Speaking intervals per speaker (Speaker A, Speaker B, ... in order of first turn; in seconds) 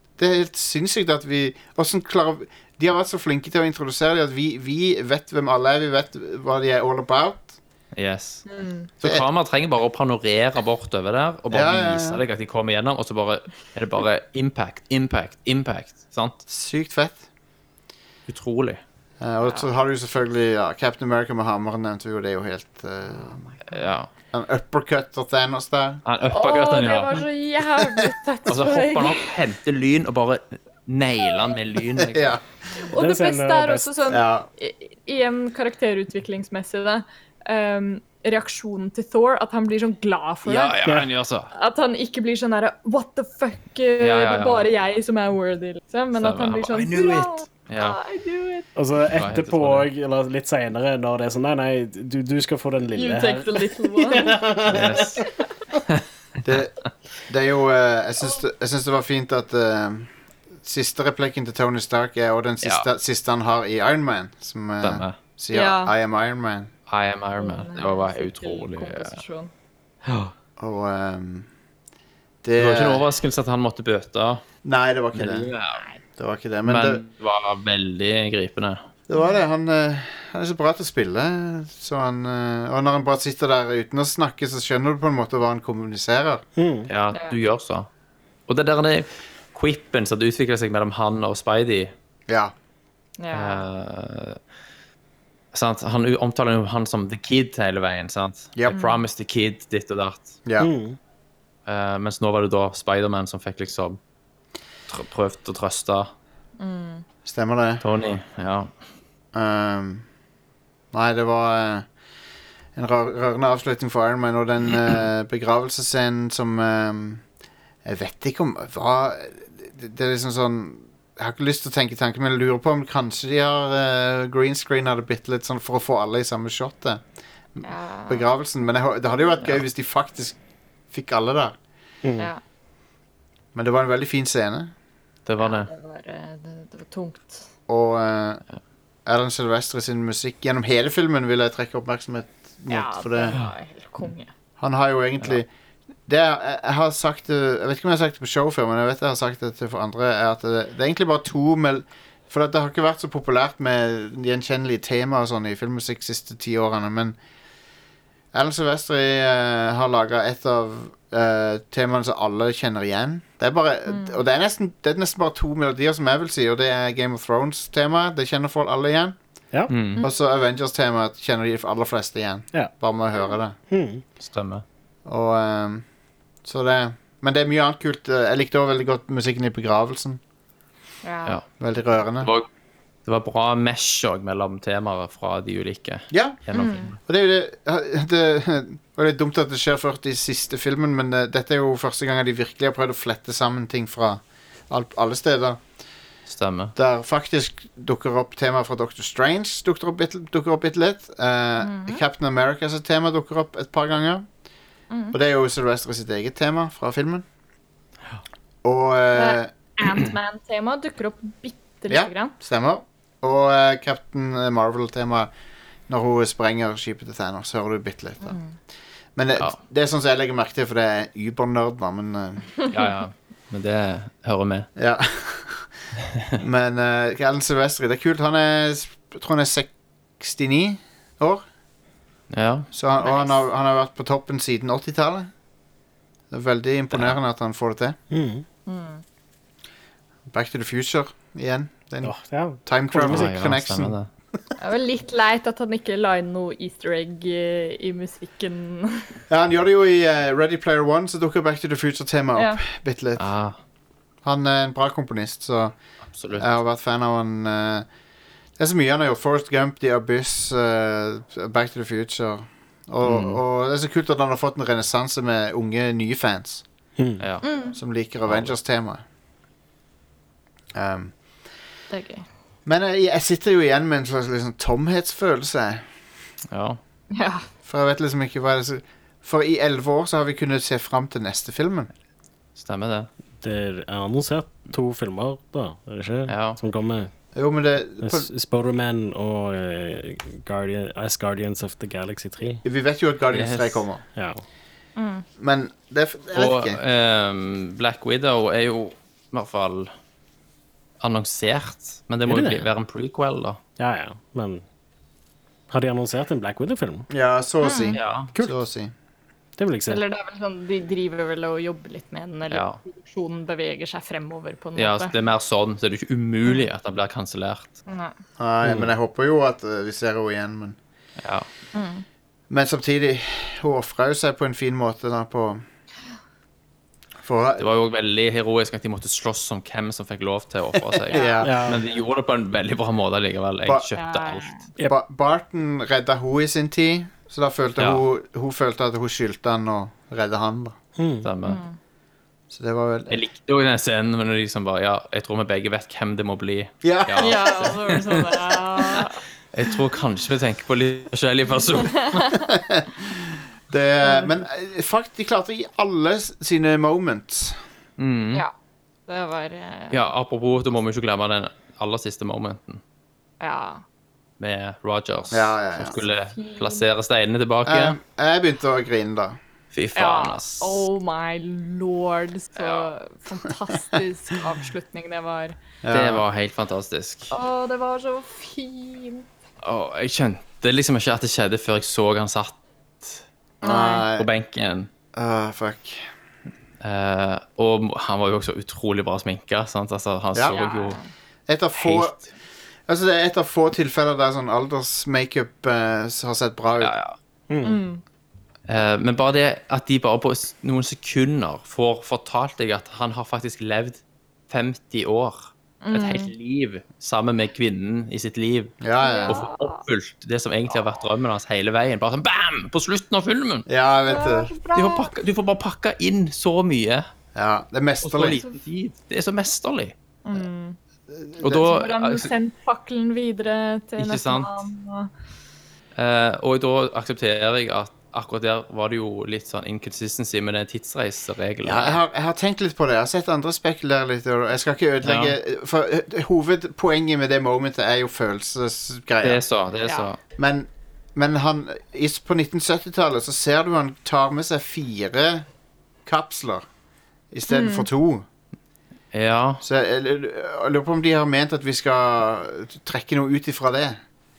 Speaker A: 0.2-7.6, 11.5-12.2, 16.5-17.2, 19.2-23.5, 24.3-26.0, 32.0-32.4, 34.1-34.5, 56.4-66.7, 70.6-71.5, 72.4-73.0, 74.6-75.5, 76.2-77.0, 79.1-86.4, 92.3-92.5, 107.2-107.8, 109.3-110.0, 110.9-111.9, 112.8-117.2, 117.8-127.0, 127.5-130.4, 130.9-131.6, 133.6-134.7, 137.7-138.4, 139.1-143.4, 144.6-145.5, 146.1-157.2, 158.3-169.2, 170.0-173.6, 175.1-175.8, 176.4-180.2, 181.6-182.3, 186.1-186.4, 187.1-195.6, 196.8-204.3, 205.1-207.2, 208.6-209.5, 211.9-215.3, 215.9-218.4, 219.2-222.5, 224.8-225.7, 226.4-231.4, 232.7-235.3, 236.3-238.0, 240.3-244.0, 249.3-253.3, 254.2-255.7, 256.4-257.9, 258.6-266.6, 267.7-269.0, 270.7-271.1, 272.7-275.9, 277.6-281.9, 287.4-288.3, 292.6-294.0, 295.4-296.8, 307.1-308.9, 318.4-320.8, 322.5-325.6, 327.2-327.7, 331.1-331.8, 334.9-340.8, 342.5-343.2, 346.8-347.7, 352.5-357.6, 365.3-366.0, 367.7-369.4, 375.8-376.2, 383.6-384.3, 385.1-386.1, 391.5-392.2, 392.9-396.9, 408.8-409.4, 413.7-414.5, 417.3-418.4, 421.1-421.6, 431.6-439.4, 440.4-445.4, 446.1-446.6, 447.3-448.2, 449.6-454.0
Speaker B: 8.0-8.5, 9.0-16.4, 18.3-18.8, 23.7-24.1, 26.1-27.2, 28.5-32.4, 40.5-41.5, 44.0-44.7, 46.1-48.0, 49.1-49.9, 54.7-55.2, 64.8-65.2, 66.9-69.2, 70.0-70.3, 72.6-74.4, 75.1-75.8, 76.7-78.8, 86.9-87.9, 88.5-91.9, 93.3-94.4, 95.5-100.4, 101.7-104.0, 104.9-106.1, 107.8-108.7, 135.3-135.7, 169.7-170.0, 174.2-174.6, 182.2-182.5, 183.1-187.0, 196.3-196.7, 222.7-224.7, 232.3-232.7, 236.9-237.2, 243.1-244.1, 253.2-253.6, 256.1-256.5, 263.0-263.4, 267.2-267.4, 268.3-268.5, 276.5-276.8, 282.6-283.1, 286.3-286.6, 293.3-293.8, 296.3-299.9, 301.0-303.6, 307.9-308.3, 312.5-312.8, 314.8-317.8, 321.2-321.5, 327.6-334.6, 341.2-341.6, 343.1-352.3, 358.0-358.4, 359.9-362.8, 364.4-368.0, 369.7-370.8, 372.6-372.9, 375.9-377.3, 379.6-383.2, 384.2-384.9, 386.8-391.0, 391.8-392.2, 396.8-397.2, 398.7-413.7, 414.8-417.1, 418.0-419.9, 421.4-422.3, 424.0-424.6, 426.0-432.0, 435.0-435.4, 439.2-440.2, 449.1-449.6
Speaker C: 8.5-8.9, 26.3-29.3, 32.8-40.8, 41.5-48.7, 52.9-54.4, 55.2-55.5, 65.5-65.9, 67.4-69.5, 87.1-87.4, 93.2-93.6, 98.7-99.0, 106.6-107.0, 127.6-128.3, 135.4-137.4, 142.7-144.3, 163.9-164.2, 181.0-181.4, 186.5-186.9, 201.6-202.0, 204.9-205.2, 209.1-212.3, 218.2-218.6, 233.0-233.4, 238.7-239.0, 244.6-249.2, 252.3-252.6, 267.4-267.8, 271.9-272.3, 277.1-277.5, 295.0-295.2, 307.6-308.0, 309.9-315.1, 317.9-318.1, 321.7-322.0, 331.1-331.5, 334.0-334.7, 341.4-341.8, 347.2-349.2, 351.8-352.5, 354.0-354.4, 359.1-360.1, 363.4-363.8, 366.3-366.8, 369.9-375.6, 377.3-379.3, 383.6-384.1, 390.5-391.1, 397.6-398.0, 405.8-406.3, 409.0-409.8, 414.1-415.1, 420.2-420.8, 421.4-425.1, 447.5-447.9
Speaker D: 32.9-33.9, 48.8-55.2, 86.6-86.9, 100.6-101.0, 132.0-132.3, 173.7-174.0, 238.1-238.4, 242.0-243.3, 267.0-267.2, 283.4-287.1, 288.0-292.6, 294.2-294.4, 302.3-302.7, 303.8-304.6, 305.7-307.1, 309.6-310.0, 318.6-318.9, 331.4-331.8, 341.0-341.3, 397.5-397.8